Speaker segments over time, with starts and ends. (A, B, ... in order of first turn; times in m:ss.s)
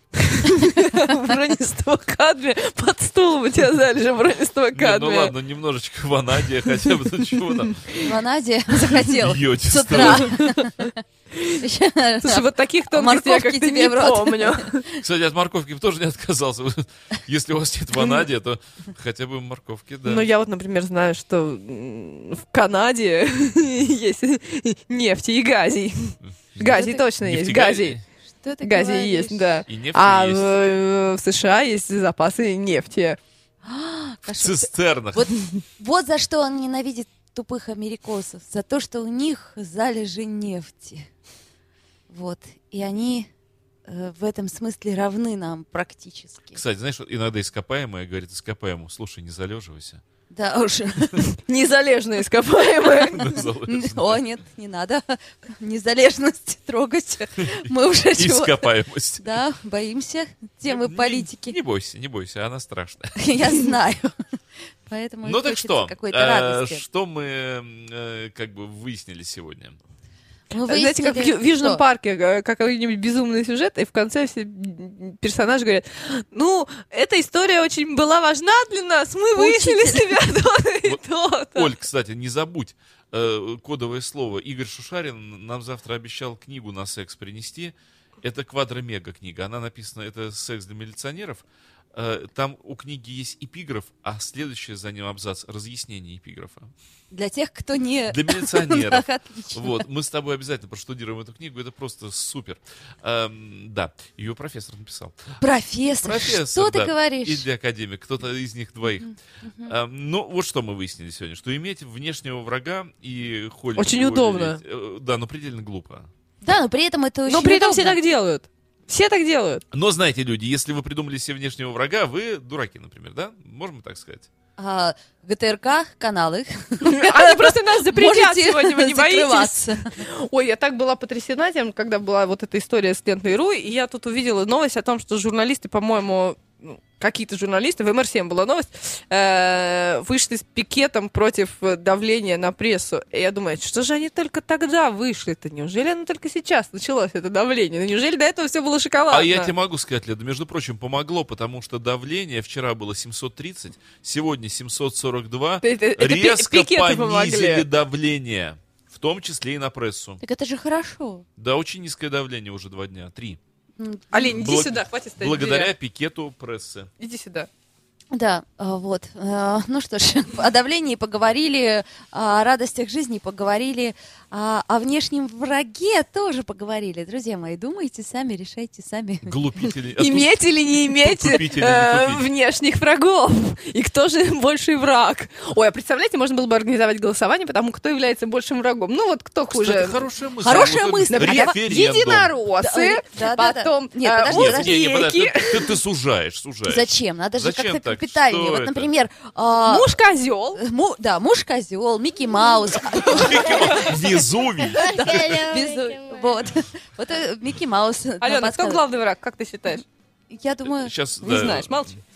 0:00.2-0:05.3 A
0:04.7-0:07.8 B
0:07.9-0:11.0 C
0:09.0-0:10.4 B
0:09.9-0:10.6 A
0:11.5-0:15.0 C
0:12.2-0:14.8 A
0:15.0-0:20.3 B
0:20.0-0:28.0 A
0:26.2-0:26.7 B
0:26.6-0:27.0 C
0:27.2-0:28.0 B
0:28.4-0:29.5 C
0:28.6-0:33.2 A
0:29.7-0:30.5 B
0:33.6-0:41.1 C
0:34.3-0:35.3 B
0:42.1-0:43.3 C
0:43.9-0:46.6 C
0:46.6-0:50.0 B
0:50.3-0:51.3 C
0:51.4-0:53.3 A
0:53.0-0:54.2 B
0:53.3-1:01.6 C
0:57.6-0:59.2 B
1:00.7-1:03.2 B
1:03.2-1:04.1 C
1:04.9-1:06.8 C
1:05.2-1:09.8 B
1:10.5-1:11.8 C
1:10.6-1:21.7 A
1:19.4-1:20.1 C
1:21.6-1:36.7 B
1:37.1-1:39.8 C
1:38.1-1:45.2 B
1:45.4-1:47.5 C
1:46.0-1:49.1 B
1:49.0-1:49.8 C
1:49.7-1:56.1 B
1:53.8-1:54.6 A
1:56.4-1:58.0 C
1:57.3-1:59.6 A
1:59.7-2:04.3 B
2:04.6-2:10.0 C
2:06.8-2:29.5 A
2:29.1-2:40.2 B
2:35.6-2:37.7 A
2:40.2-2:41.3 C
2:41.4-2:43.4 B
2:43.8-2:44.3 C
2:44.1-2:45.7 A
2:44.3-2:46.9 B
2:47.0-2:47.5 A
2:48.1-2:59.4 C
2:59.3-3:00.4 B
3:00.0-3:15.8 A
3:01.0-3:02.2 B
3:09.5-3:12.3 B
3:10.4-3:11.6 C
3:12.6-3:14.8 C
3:14.3-3:18.9 B
3:16.7-3:20.0 C
3:19.7-3:20.6 A
3:20.6-3:24.0 C
3:22.9-3:25.4 B
3:24.6-3:28.8 C
3:28.2-3:29.8 A
3:30.3-3:30.9 C
3:30.6-3:32.0 B
3:31.2-3:32.0 A